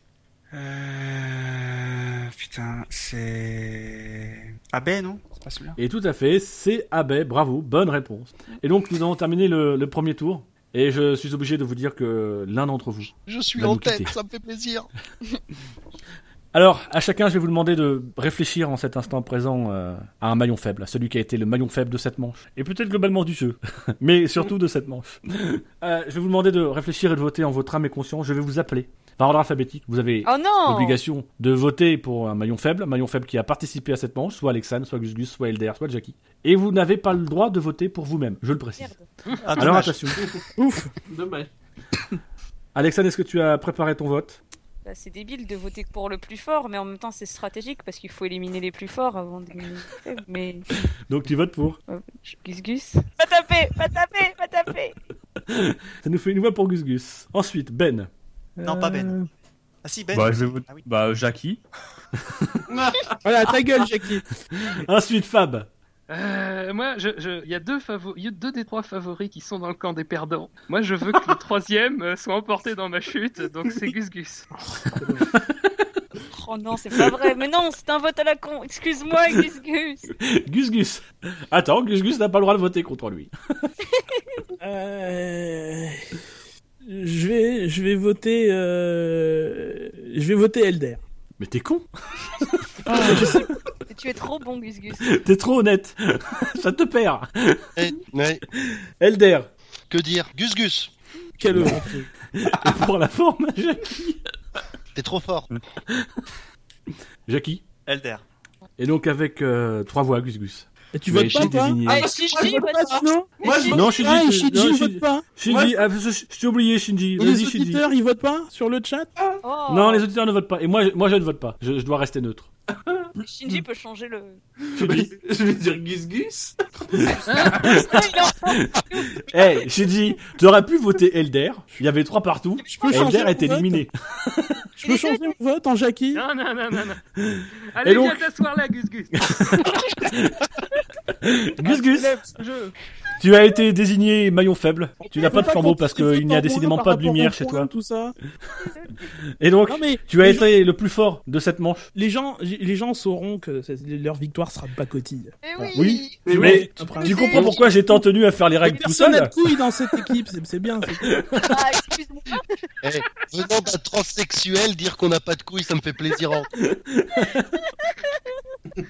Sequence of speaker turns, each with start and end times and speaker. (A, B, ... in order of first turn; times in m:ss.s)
0:00.5-0:05.8 A
0:05.8-0:14.1 B
0:13.3-0:14.9 C
0:16.5-0:38.9 B
0:30.2-0:31.0 D
0:38.8-0:39.0 D
0:39.5-0:39.9 A
0:39.5-0:40.2 B
0:39.6-0:40.4 E
0:40.6-0:40.9 F
0:41.1-0:41.5 E
0:42.7-0:44.4 B
0:44.8-0:50.8 D
0:51.1-0:51.8 B
0:51.9-0:55.0 D
0:55.4-0:58.1 B
0:58.6-0:59.2 G
0:58.6-0:59.2 A
0:59.8-1:00.9 A
1:00.1-1:01.6 G
1:02.7-1:03.2 E
1:03.2-1:04.2 F
1:04.5-1:05.7 B
1:06.1-1:14.5 H
1:14.5-1:15.3 F
1:16.3-1:20.1 D
1:20.2-1:23.7 B
1:23.9-1:24.2 D
1:24.6-1:26.0 F
1:26.8-1:31.0 F
1:31.4-1:33.3 B
1:32.9-1:33.3 D
1:32.9-1:33.4 F
1:33.9-1:35.1 D
1:35.0-1:37.7 B
1:37.8-1:38.4 C
1:38.5-1:39.5 B
1:39.9-1:40.9 C
1:41.4-1:42.1 F
1:41.5-1:41.8 B
1:42.3-1:44.3 B
1:44.9-1:45.5 C
1:45.9-1:46.2 B
1:47.3-1:47.6 B
1:47.8-1:48.2 A
1:48.8-1:52.1 B
1:50.9-1:55.3 F
1:51.8-1:52.7 E
1:51.8-1:53.7 D
1:53.4-1:54.2 E
1:53.7-1:57.8 B
1:55.4-1:55.8 E
1:57.2-1:59.1 F
1:59.4-2:00.0 D
1:59.7-2:02.5 B
2:03.2-2:04.4 D
2:04.7-2:07.2 E
2:04.8-2:05.1 B
2:07.1-2:14.5 B
2:07.3-2:07.6 H
2:07.4-2:09.3 D
2:12.7-2:13.8 F
2:12.7-2:13.0 D
2:14.8-2:16.2 F
2:14.8-2:15.2 D
2:16.1-2:17.0 H
2:17.2-2:18.3 B
2:17.7-2:19.3 H
2:19.2-2:20.4 B
2:21.2-2:22.1 B
2:23.2-2:27.7 B
2:25.1-2:28.2 F
2:29.4-2:31.9 B
2:29.7-2:30.5 F
2:31.9-2:35.3 F
2:35.4-2:36.2 D
2:35.6-2:39.3 B
2:36.2-2:36.7 E
2:36.3-2:38.0 F
2:37.0-2:37.7 D
2:38.6-2:41.1 F
2:41.0-2:41.6 B
2:41.4-2:42.6 D
2:42.8-2:46.5 C
2:46.7-2:47.5 B
2:47.8-2:48.2 D